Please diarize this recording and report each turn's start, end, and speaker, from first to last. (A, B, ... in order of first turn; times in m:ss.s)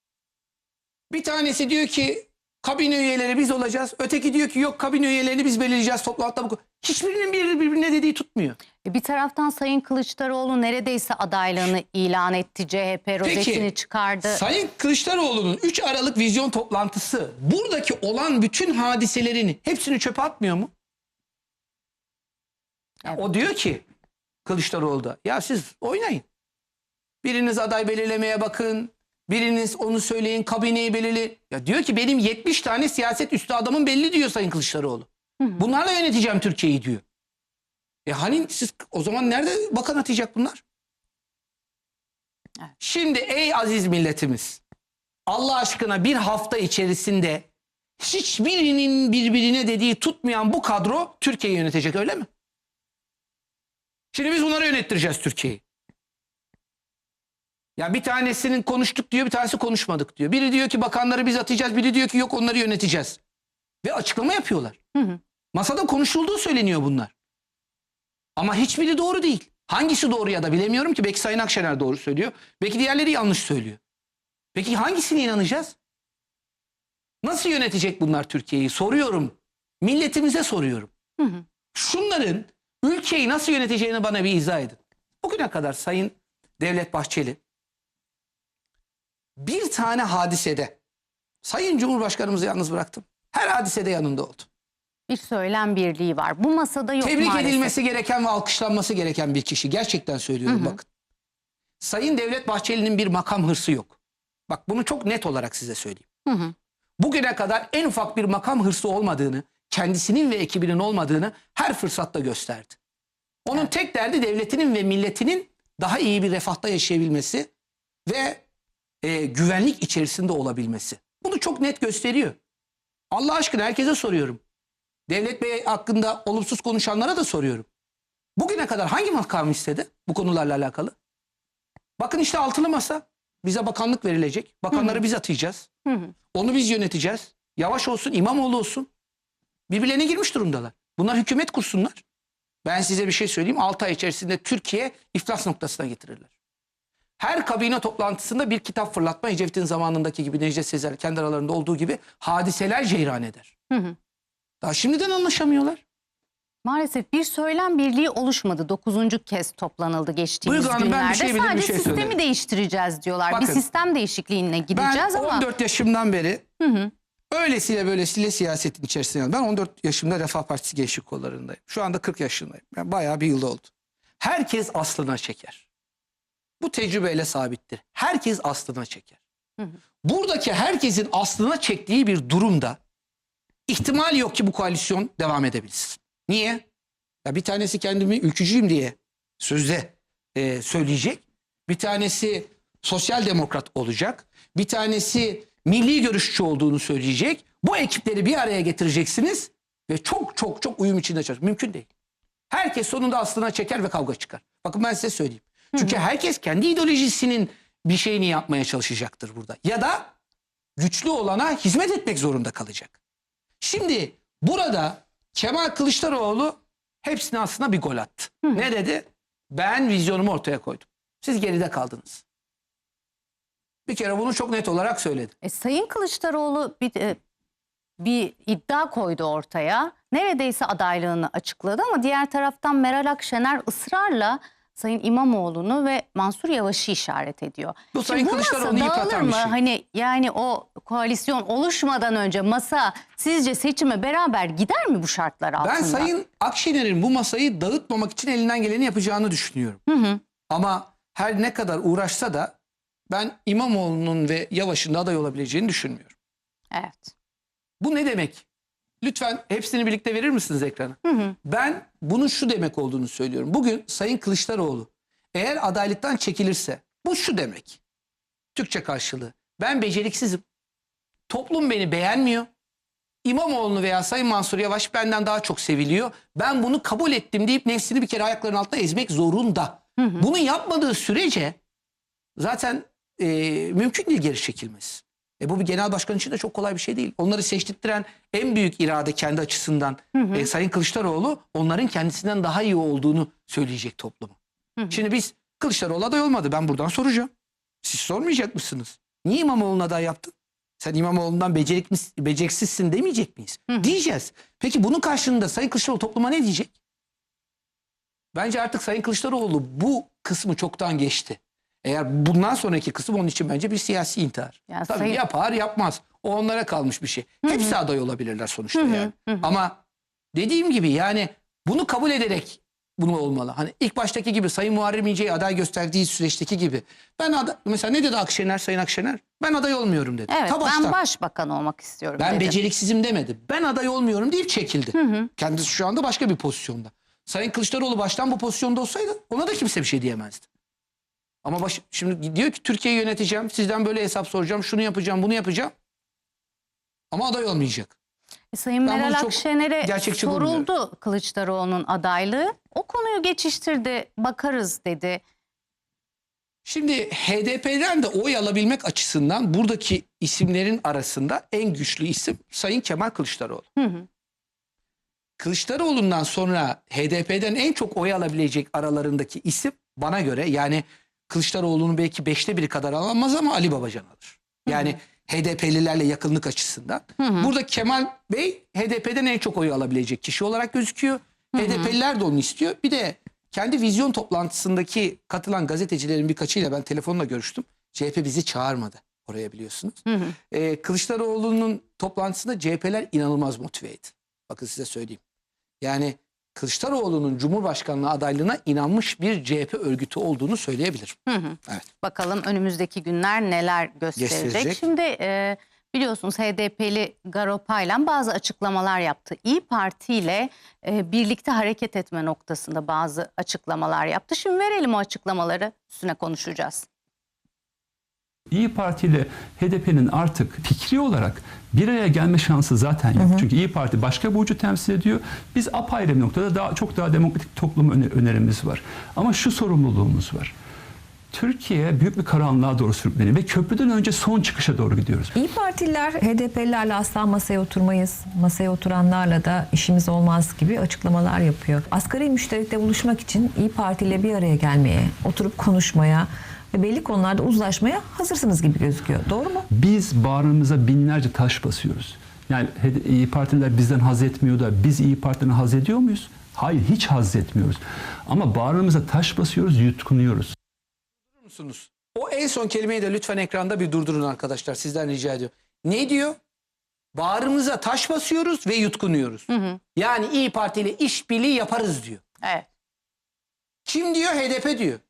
0:01.1-0:08.6 A
0:08.8-0:14.4 B
0:13.2-0:13.7 A
0:14.2-0:20.7 A
0:23.1-0:23.8 A
0:24.4-0:26.2 A
0:27.2-0:37.0 A
0:38.0-0:40.6 A
0:42.8-0:44.6 A
0:45.3-0:47.5 A
0:48.0-0:52.3 A
0:54.1-0:55.6 A
0:57.8-1:03.2 A
1:03.8-1:04.8 A
1:05.5-1:07.1 A
1:08.4-1:13.8 A
1:14.5-1:15.8 A
1:17.2-1:20.9 A
1:21.2-1:21.4 B
1:21.7-1:27.4 A
1:29.4-1:30.8 A
1:31.4-1:34.5 A
1:35.1-1:37.7 B
1:37.0-1:40.8 A
1:40.5-1:40.8 B
1:41.8-1:44.0 A
1:44.5-1:46.0 A
1:46.2-1:46.5 B
1:47.0-1:52.8 A
1:53.4-1:57.5 A
1:58.0-1:58.4 A
1:59.0-2:02.4 A
2:03.1-2:04.4 A
2:05.1-2:07.7 A
2:08.4-2:10.9 A
2:12.0-2:15.7 A
2:15.8-2:16.1 B
2:16.3-2:18.9 A
2:19.7-2:22.0 A
2:22.6-2:26.3 A
2:27.2-2:33.5 A
2:33.7-2:34.0 B
2:34.6-2:35.8 A
2:36.6-2:45.5 B
2:40.4-2:42.2 A
2:43.3-2:43.6 A
2:44.7-2:46.4 A
2:46.6-2:46.9 B
2:47.3-2:55.6 A
2:56.6-2:59.2 A
3:00.0-3:02.8 A
3:03.7-3:06.6 A
3:07.2-3:21.9 A
3:22.5-3:30.1 A
3:30.8-3:33.0 A
3:33.6-3:42.2 A
3:43.9-3:45.3 A
3:45.4-3:47.2 B
3:48.0-4:06.1 B
3:57.9-3:59.6 A
4:05.6-4:09.8 A
4:09.9-4:10.2 B
4:10.5-4:12.6 A
4:13.1-4:16.1 A
4:16.7-4:17.1 B
4:17.8-4:18.4 A
4:19.0-4:27.8 A
4:21.1-4:21.3 B
4:28.5-4:30.4 A
4:31.3-4:32.5 A
4:33.2-4:41.6 A
4:40.0-4:40.2 B
4:42.4-4:54.4 A
4:50.1-4:50.5 B
4:54.9-4:57.3 A
4:57.8-5:06.7 A
5:08.3-5:19.8 A
5:14.7-5:15.2 B
5:17.4-5:17.7 B
5:18.8-5:19.4 B
5:20.3-5:31.0 A
5:30.3-5:32.6 B
5:32.2-5:40.4 A
5:34.9-5:35.3 B
5:41.4-5:45.7 A
5:47.1-5:47.9 A
5:48.5-5:55.2 B
5:48.8-5:50.7 A
5:56.6-6:03.6 A
6:03.8-6:04.0 B
6:05.4-6:35.2 A
6:14.7-6:15.0 B
6:17.2-6:17.5 B
6:21.6-6:21.9 B
6:30.1-6:30.3 B
6:35.8-6:41.2 A
6:41.3-6:56.8 B
6:44.2-6:44.8 A
6:58.5-7:10.5 C
7:03.2-7:03.4 D
7:11.3-7:15.4 C
7:15.3-7:29.6 D
7:29.7-7:40.5 C
7:41.4-7:46.4 A
7:47.1-7:52.2 A
7:49.5-7:49.8 B
7:52.4-7:52.7 B
7:53.8-7:55.0 A